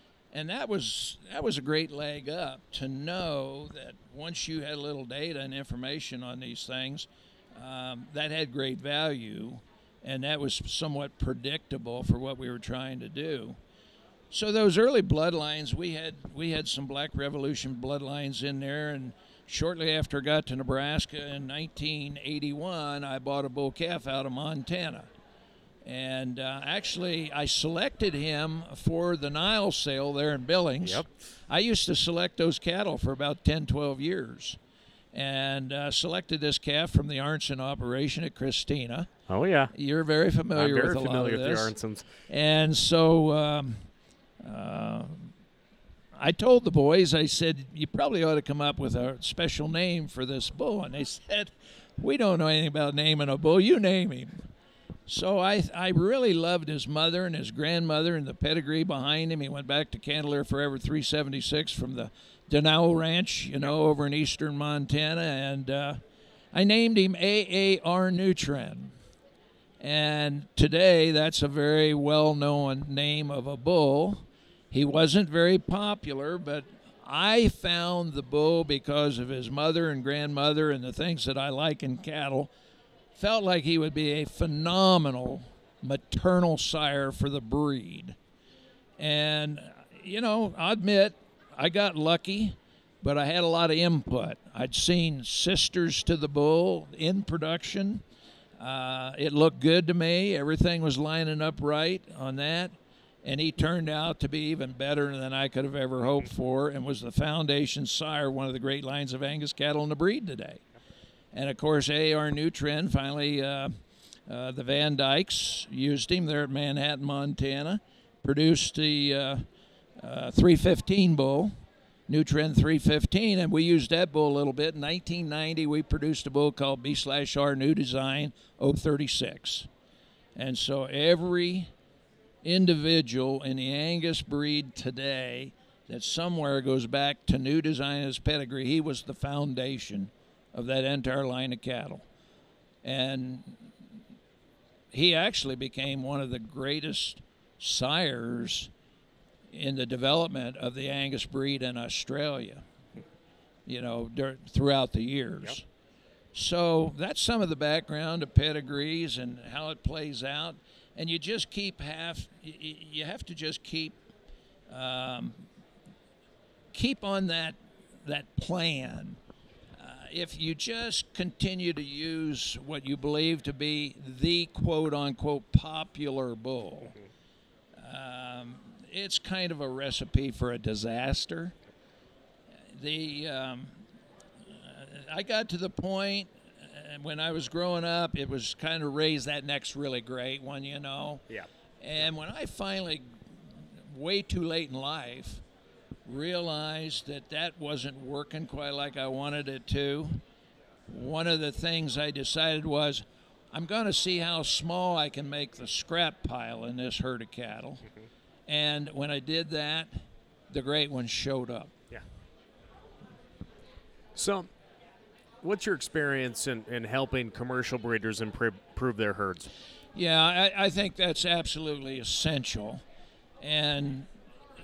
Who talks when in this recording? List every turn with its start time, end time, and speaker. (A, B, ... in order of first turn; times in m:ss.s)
0:00.3-0:13.6 A
0:14.3-0:25.1 A
0:25.8-0:34.6 A
0:30.8-0:31.1 B
0:35.1-0:39.1 A
0:39.3-0:39.7 B
0:39.7-0:41.7 A
0:40.5-0:42.1 B
0:42.3-0:43.9 A
0:44.4-0:45.3 A
0:46.1-0:54.5 A
0:55.1-1:06.0 A
1:06.5-1:08.9 A
1:09.8-1:22.5 A
1:23.2-1:28.2 A
1:29.0-1:38.0 A
1:38.6-1:50.6 A
1:51.3-1:53.7 A
1:54.3-1:59.4 A
2:00.0-2:01.5 A
2:02.1-2:09.7 A
2:10.4-2:11.7 A
2:12.4-2:22.0 A
2:22.8-2:23.7 A
2:24.9-2:28.7 A
2:29.5-2:32.6 A
2:33.6-2:35.6 A
2:36.3-2:44.0 A
2:44.7-2:45.5 A
2:46.7-2:49.2 A
2:49.8-2:57.0 A
2:57.8-3:01.6 A
3:02.7-3:03.8 A
3:04.5-3:11.2 A
3:11.8-3:15.4 A
3:16.0-3:20.2 A
3:20.9-3:27.8 A
3:28.5-3:31.7 A
3:34.1-3:34.5 B
3:35.4-3:39.5 B
3:39.9-3:42.8 A
3:43.4-3:44.1 A